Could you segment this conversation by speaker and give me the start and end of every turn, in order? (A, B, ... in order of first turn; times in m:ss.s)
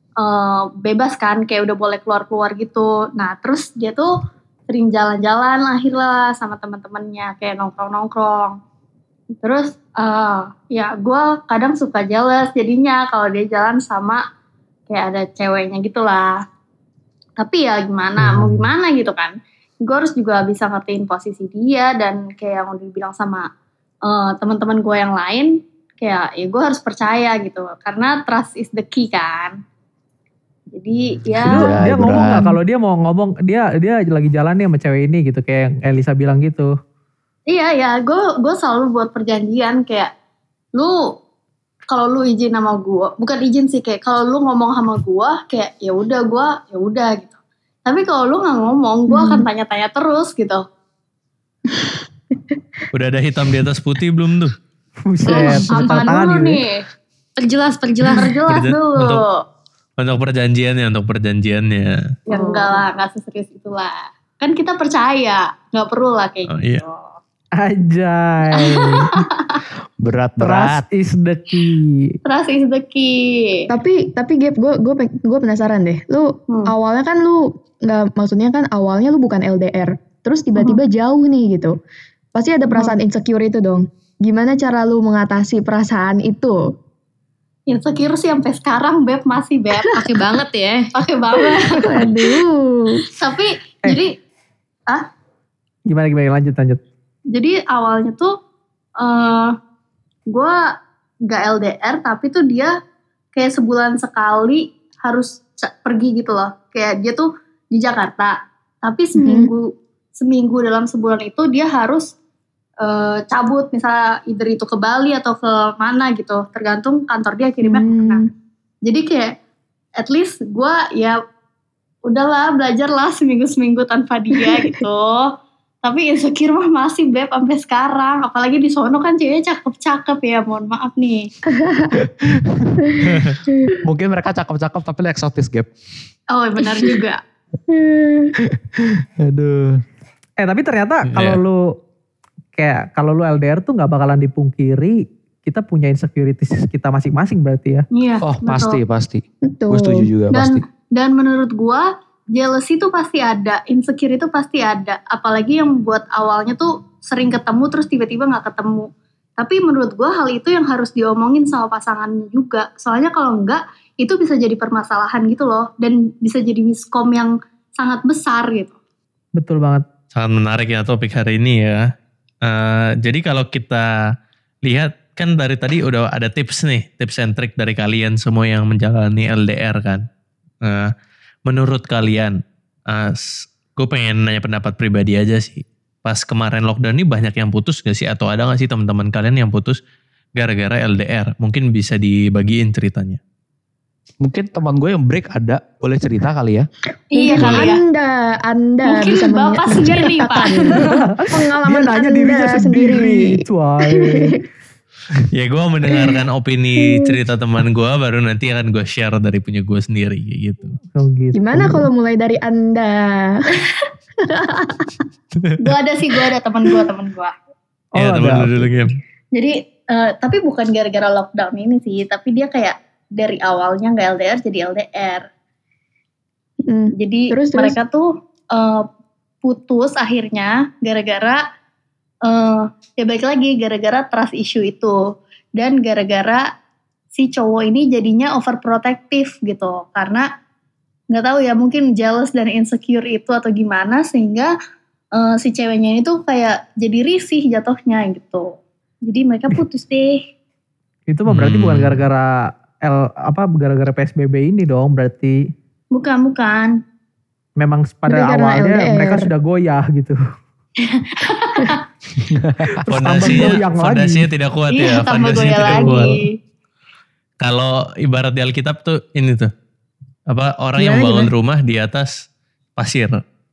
0:00.2-0:04.1 A
0:04.7-0:08.6 A
0:09.4-0:14.2 A
0:14.9-0:16.4 A
0:17.4-0:23.5 A
0:18.2-0:18.7 B
0:24.0-0:29.6 A
0:30.7-0:31.7 A
0:31.4-0:32.5 B
0:31.5-0:36.7 C
0:37.5-0:40.1 A
0:41.9-0:50.6 A
0:49.1-0:49.5 D
0:51.7-0:52.6 D
0:52.9-0:54.5 E
0:55.1-0:56.6 C
0:55.3-0:56.8 A
0:55.4-0:55.9 F
0:57.4-0:58.3 F
0:58.1-0:59.4 A
0:58.5-0:59.2 E
1:00.0-1:02.1 E
1:02.3-1:07.2 A
1:02.3-1:02.8 D
1:06.5-1:06.8 E
1:07.6-1:09.1 C
1:08.5-1:09.6 A
1:10.0-1:10.8 B
1:10.4-1:12.1 C
1:12.2-1:13.7 A
1:13.7-1:21.7 D
1:16.5-1:16.7 A
1:22.3-1:26.6 D
1:27.7-1:29.9 A
1:30.0-1:30.9 F
1:30.9-1:32.2 A
1:31.4-1:33.0 D
1:33.1-1:34.2 A
1:35.9-1:36.8 C
1:37.3-1:38.3 A
1:39.0-1:39.5 A
1:40.3-1:40.7 A
1:41.3-1:42.7 A
1:43.3-1:52.1 A
1:49.2-1:49.5 D
1:52.8-1:58.2 A
1:57.6-1:58.3 D
1:58.8-1:59.3 A
2:00.0-2:01.2 A
2:02.1-2:05.3 A
2:05.8-2:11.3 A
2:11.6-2:12.0 D
2:11.9-2:15.7 B
2:16.3-2:17.2 A
2:17.7-2:18.4 D
2:18.4-2:19.8 B
2:20.4-2:21.7 C
2:21.1-2:21.4 E
2:22.6-2:27.8 C
2:27.9-2:28.8 A
2:28.2-2:30.6 B
2:29.5-2:30.0 D
2:30.3-2:48.7 A
2:49.4-2:49.8 C
2:50.1-2:51.8 E
2:52.4-2:53.9 E
2:54.6-3:00.0 E
3:00.6-3:00.9 E
3:01.5-3:02.4 E
3:02.9-3:09.8 E
3:10.4-3:13.2 E
3:14.2-3:16.6 B
3:17.1-3:17.8 A
3:17.1-3:23.3 D
3:18.8-3:21.0 A
3:20.6-3:24.3 C
3:23.9-3:24.3 D
3:25.3-3:30.8 E
3:25.9-3:26.2 D
3:26.8-3:27.1 D
3:30.9-3:31.8 C
3:31.3-3:33.5 D
3:33.6-3:33.9 A
3:34.3-3:34.9 D
3:35.6-3:37.3 A
3:38.0-3:38.7 C
3:38.0-3:38.9 E
3:39.3-3:45.3 A
3:46.7-3:47.8 D
3:47.0-3:48.9 A
3:49.4-3:51.4 A
3:52.2-3:56.5 A
3:57.1-4:00.3 A
4:01.1-4:04.5 A
4:05.1-4:10.2 A
4:11.1-4:15.4 C
4:11.3-4:12.0 E
4:15.9-4:16.7 A
4:17.6-4:20.2 C
4:18.1-4:19.3 D
4:20.8-4:21.8 A
4:22.2-4:22.8 B
4:22.8-4:24.3 C
4:22.9-4:26.1 E
4:24.7-4:26.4 A
4:25.7-4:26.1 C
4:27.4-4:29.5 E
4:30.3-4:32.2 E
4:30.8-4:31.3 D
4:32.8-4:33.2 E